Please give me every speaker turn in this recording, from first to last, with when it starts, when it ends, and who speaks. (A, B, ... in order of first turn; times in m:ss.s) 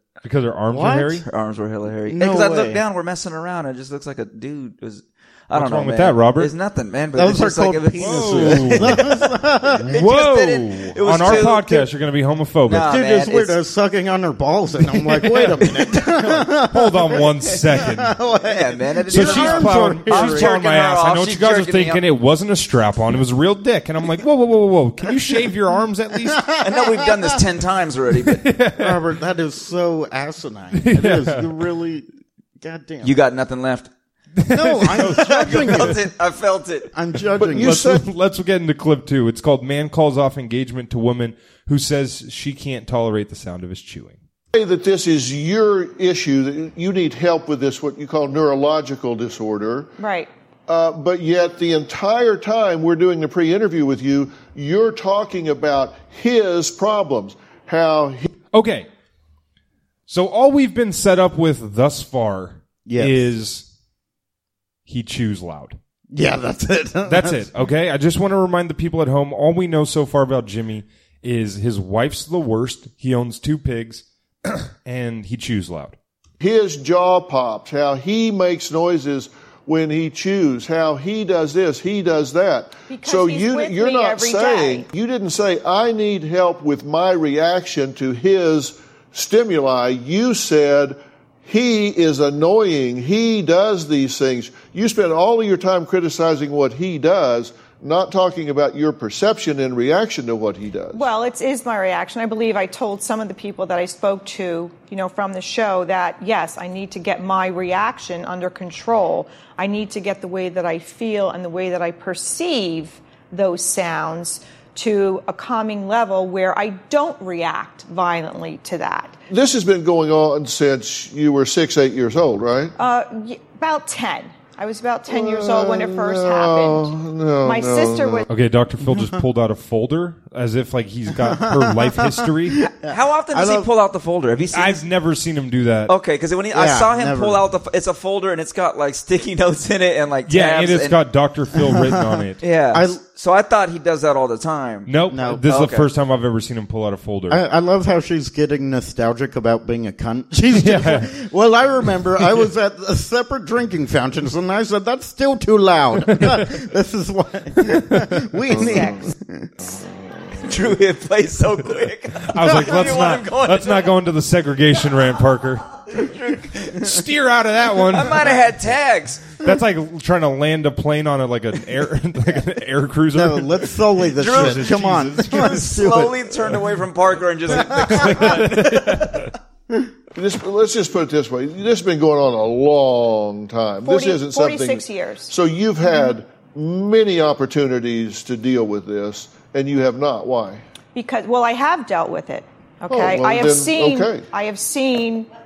0:00.2-0:01.3 A
0:00.7-0:01.2 B
0:01.2-0:09.3 C
0:02.1-0:02.8 B
0:05.5-0:06.5 A
0:07.1-0:09.9 B
0:08.0-0:09.1 A
0:09.8-0:12.9 A
0:09.9-0:11.8 C
0:11.2-0:11.5 B
0:12.7-0:13.6 C
0:12.7-0:20.6 B
0:14.8-0:18.2 A
0:18.5-0:22.0 C
0:19.1-0:26.5 A
0:26.4-0:27.1 B
0:26.6-0:28.4 C
0:28.3-0:29.1 A
0:28.8-0:32.1 B
0:30.7-0:31.7 A
0:32.6-0:33.2 B
0:33.0-0:33.9 C
0:34.4-0:36.0 A
0:34.5-0:36.1 B
0:35.0-0:36.9 C
0:36.9-0:37.8 B
0:37.4-0:38.0 D
0:37.6-0:44.2 A
0:44.5-0:49.9 D
0:50.0-0:50.3 E
0:50.7-0:58.3 D
0:58.5-0:58.9 A
1:00.1-1:03.7 A
1:02.9-1:03.3 B
1:04.9-1:05.8 A
1:06.1-1:07.5 B
1:07.0-1:16.0 A
1:16.4-1:41.1 D
1:22.9-1:24.9 E
1:40.9-1:59.2 E
1:59.3-2:02.8 D
2:02.8-2:06.9 E
2:05.1-2:08.2 D
2:07.4-2:08.2 E
2:08.3-2:12.6 A
2:11.1-2:13.7 B
2:12.9-2:14.8 C
2:14.5-2:15.9 A
2:15.9-2:21.0 C
2:16.5-2:17.4 B
2:20.3-2:22.4 A
2:21.7-2:22.2 B
2:22.4-2:25.9 C
2:22.7-2:23.0 B
2:24.9-2:27.4 A
2:25.1-2:25.5 B
2:27.3-2:39.5 B
2:30.5-2:31.1 A
2:36.1-2:36.6 A
2:37.6-2:38.2 A
2:38.5-2:39.0 D
2:40.4-2:43.9 C
2:42.3-2:45.6 A
2:45.9-2:46.8 C
2:46.7-2:48.4 A
2:47.9-2:49.3 C
2:49.4-2:55.9 A
2:53.1-2:56.5 B
2:54.2-2:59.2 C
2:57.5-2:59.3 A
2:57.5-2:58.3 B
3:00.2-3:10.6 D
3:03.8-3:05.3 E
3:11.0-3:15.3 E
3:12.9-3:14.3 D